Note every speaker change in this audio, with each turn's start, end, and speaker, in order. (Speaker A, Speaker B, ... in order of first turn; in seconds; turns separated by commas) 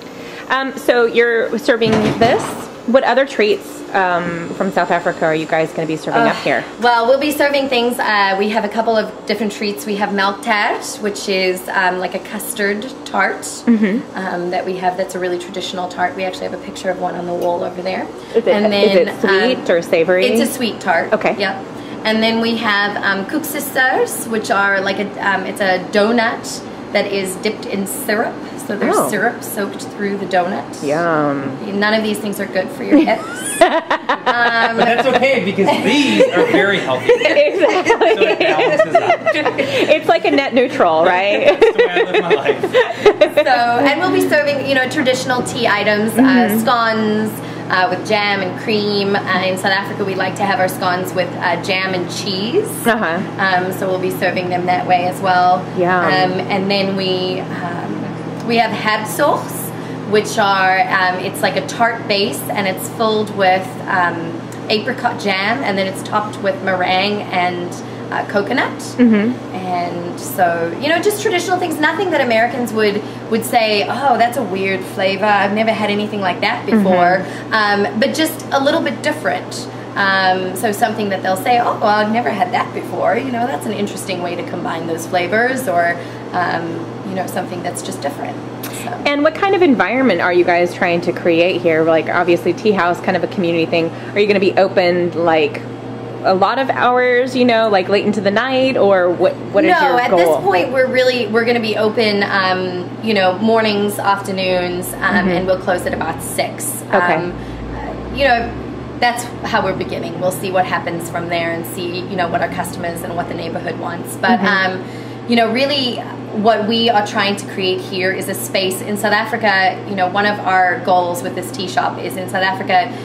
Speaker A: 0.5-6.7, Speaker B: 6.1-19.6, Speaker A: 13.7-14.0, Speaker A: 18.3-20.5, Speaker B: 20.2-31.0, Speaker A: 21.1-21.4, Speaker A: 28.8-29.2, Speaker A: 30.8-31.6, Speaker B: 31.6-36.5, Speaker A: 33.6-34.2, Speaker C: 34.7-39.6, Speaker A: 37.1-43.5, Speaker C: 41.0-42.7, Speaker B: 43.2-69.0, Speaker A: 46.2-46.6, Speaker A: 52.8-53.2, Speaker A: 55.7-56.3, Speaker A: 69.0-69.3, Speaker B: 69.5-89.0, Speaker A: 76.7-77.2, Speaker A: 89.0-95.6, Speaker A: 96.2-100.5, Speaker B: 99.5-122.9, Speaker A: 105.1-105.4, Speaker A: 106.9-107.2, Speaker A: 114.3-114.5